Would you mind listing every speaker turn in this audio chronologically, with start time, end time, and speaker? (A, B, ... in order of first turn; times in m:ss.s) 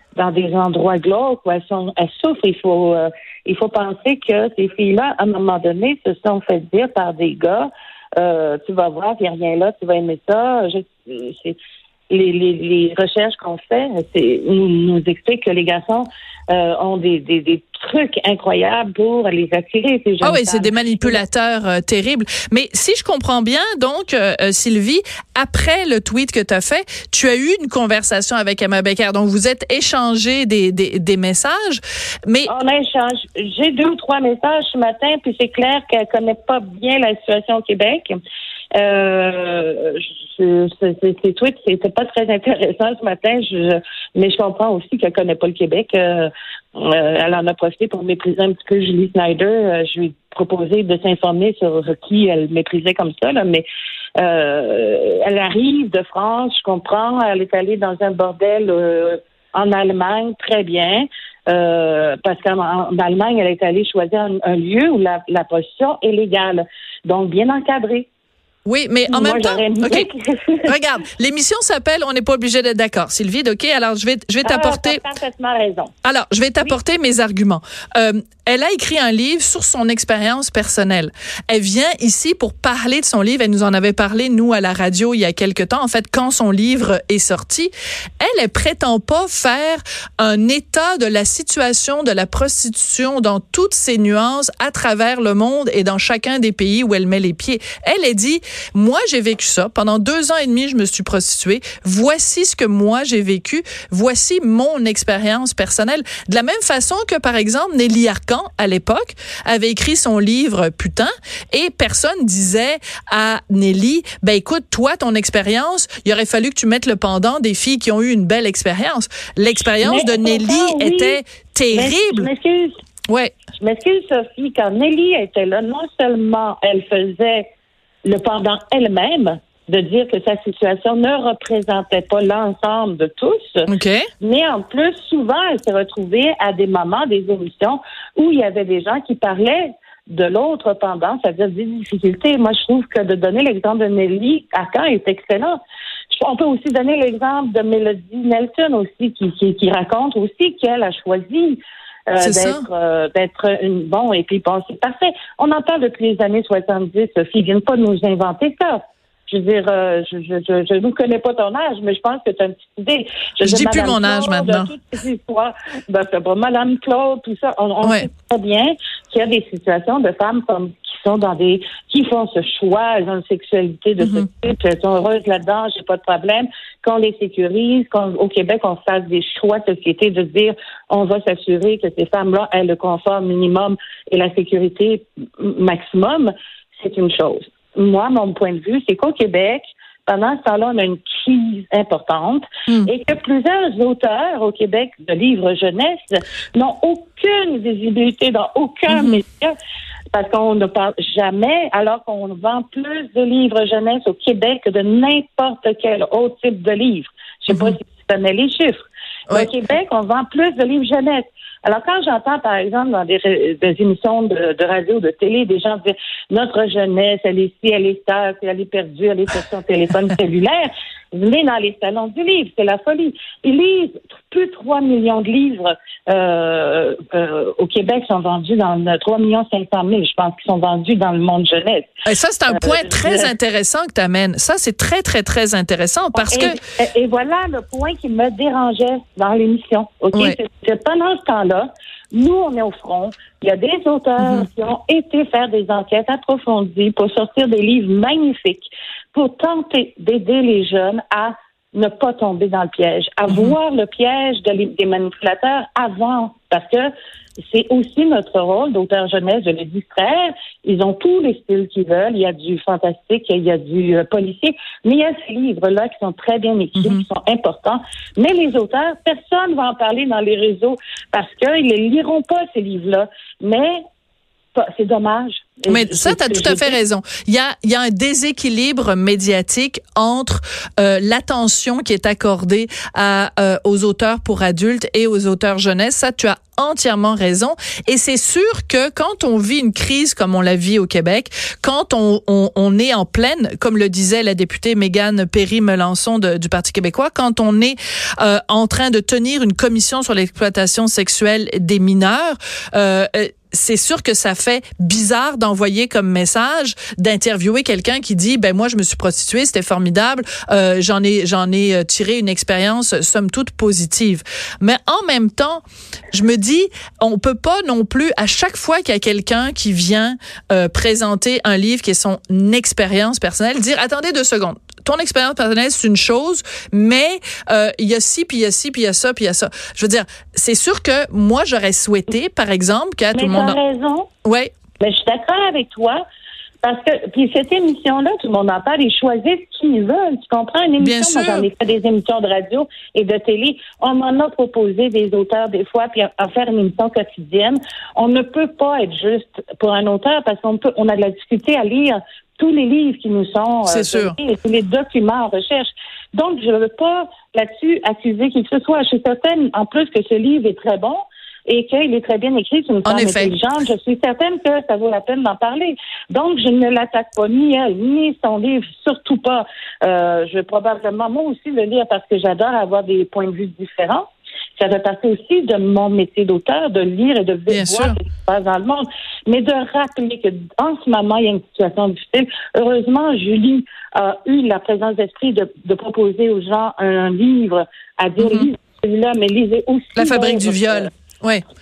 0:00.2-0:11.6 A
0:12.1-0:21.2 A
0:20.2-0:32.5 B
0:32.5-0:38.2 A
0:38.8-0:53.6 A
0:54.2-1:08.1 A
1:08.7-1:10.1 B
1:09.1-1:10.7 A
1:10.7-1:15.0 B
1:14.4-1:15.9 A
1:16.0-2:02.3 B
1:59.8-2:01.2 A
2:01.7-2:02.7 A
2:03.6-2:07.5 A
2:08.0-2:25.6 A
2:13.7-2:14.0 B
2:26.2-3:19.6 A
2:32.2-2:32.7 B
2:43.4-2:44.7 B
2:47.8-2:48.1 B
2:54.0-2:54.3 B
3:18.9-3:19.2 B
3:20.1-3:51.9 A
3:27.5-3:27.8 B
3:52.1-3:56.6 B
3:52.5-3:53.3 A
3:56.2-4:16.9 A
4:00.1-4:00.4 B
4:04.2-4:04.5 B
4:13.3-4:13.6 B
4:17.5-4:33.8 A
4:26.8-4:27.0 B
4:34.6-4:36.8 A
4:35.7-5:33.6 B
5:33.1-5:34.1 A
5:34.2-5:34.5 B
5:34.8-5:36.0 A
5:36.6-6:14.1 A
5:40.8-5:41.5 B
5:53.7-5:54.2 B
6:02.9-6:03.4 B
6:14.6-6:30.9 A
6:17.5-6:18.0 B
6:28.2-6:28.5 B
6:30.0-6:31.4 B